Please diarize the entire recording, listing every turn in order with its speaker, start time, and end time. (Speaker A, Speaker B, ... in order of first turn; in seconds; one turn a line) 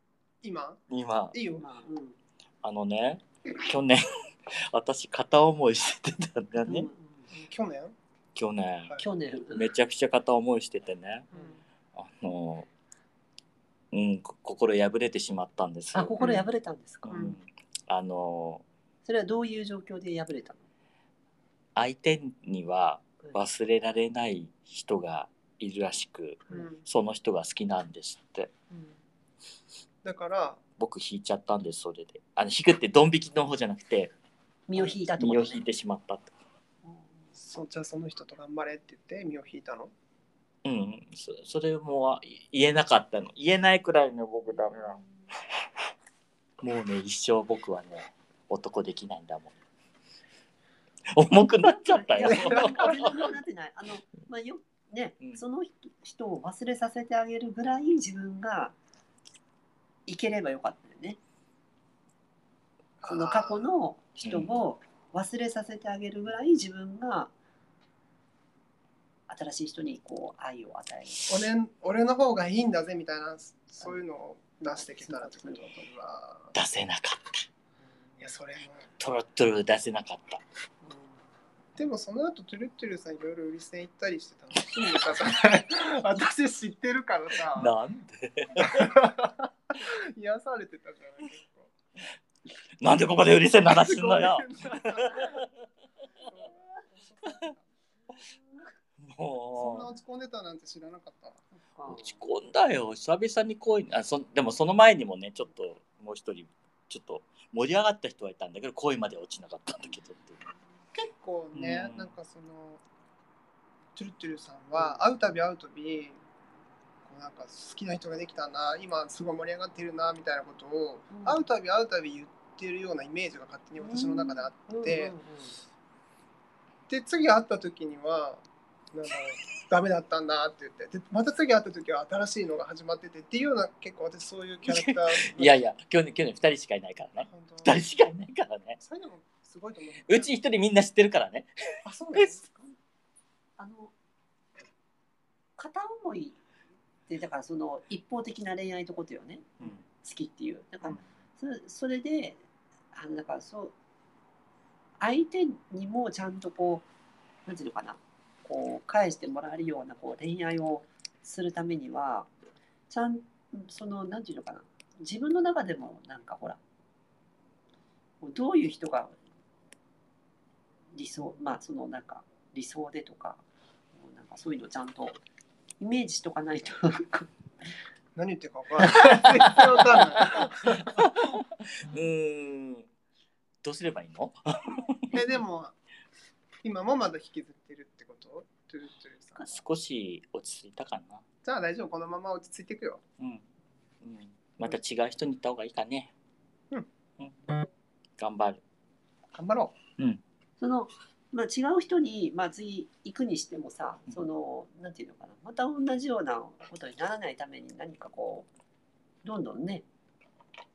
Speaker A: 0.4-0.8
Speaker B: 0.9-1.4
Speaker A: 1.3-1.6
Speaker C: 1.5-2.2
Speaker B: 2.6-4.0
Speaker B: 4.7-6.9
Speaker C: 6.6-7.3
Speaker A: 7.3-8.0
Speaker B: 8.3-9.0
Speaker C: 9.0-9.7
Speaker B: 9.5-11.3
Speaker B: 12.0-12.7
Speaker B: 13.9-16.4
Speaker C: 15.9-17.2
Speaker B: 17.0-18.6
Speaker C: 19.0-20.6
Speaker B: 21.8-28.5
Speaker A: 26.5-26.8
Speaker A: 30.0-30.6
Speaker B: 30.8-34.1
Speaker C: 34.7-35.6
Speaker B: 34.8-36.3
Speaker C: 36.9-37.1
Speaker A: 37.4-39.9
Speaker B: 40.6-45.0
Speaker C: 44.5-45.3
Speaker B: 46.6-49.5
Speaker B: 51.1-53.3
Speaker C: 51.7-58.8
Speaker A: 52.2-53.3
Speaker C: 60.1-61.2
Speaker A: 63.0-63.7
Speaker C: 63.0-67.3
Speaker B: 64.2-64.5
Speaker C: 69.3-71.4
Speaker A: 71.3-76.5
Speaker C: 74.6-75.8
Speaker B: 76.5-77.4
Speaker A: 78.2-78.9
Speaker B: 79.0-80.4
Speaker C: 80.8-81.1
Speaker A: 81.8-87.7
Speaker B: 87.5-88.9
Speaker A: 88.6-91.7
Speaker B: 92.8-95.5
Speaker A: 93.6-95.4
Speaker A: 97.2-97.6
Speaker B: 99.0-99.9
Speaker A: 99.5-101.4
Speaker C: 101.6-102.2
Speaker B: 101.9-110.5
Speaker A: 110.9-112.8
Speaker B: 111.5-112.1
Speaker A: 114.0-116.2
Speaker A: 117.0-125.2
Speaker C: 121.1-121.5
Speaker C: 123.8-125.6
Speaker A: 126.9-135.6
Speaker B: 134.7-138.8
Speaker A: 137.2-137.9
Speaker A: 138.8-140.3
Speaker B: 140.1-141.5
Speaker A: 141.8-142.4
Speaker C: 142.2-142.8
Speaker C: 143.6-143.9
Speaker C: 145.6-146.4
Speaker C: 147.1-152.4
Speaker C: 152.9-153.7
Speaker C: 155.0-156.9
Speaker C: 157.5-162.3
Speaker C: 162.9-166.6
Speaker C: 168.2-169.1
Speaker C: 170.9-173.4
Speaker C: 173.9-175.2
Speaker C: 175.8-177.3
Speaker A: 178.2-181.1
Speaker B: 179.0-182.9
Speaker B: 183.6-185.2
Speaker A: 185.1-185.8
Speaker A: 186.6-189.6
Speaker B: 189.4-191.2
Speaker A: 191.4-193.0
Speaker B: 194.0-196.1
Speaker B: 198.2-198.6
Speaker A: 199.3-199.8
Speaker C: 200.6-208.5
Speaker C: 209.2-209.8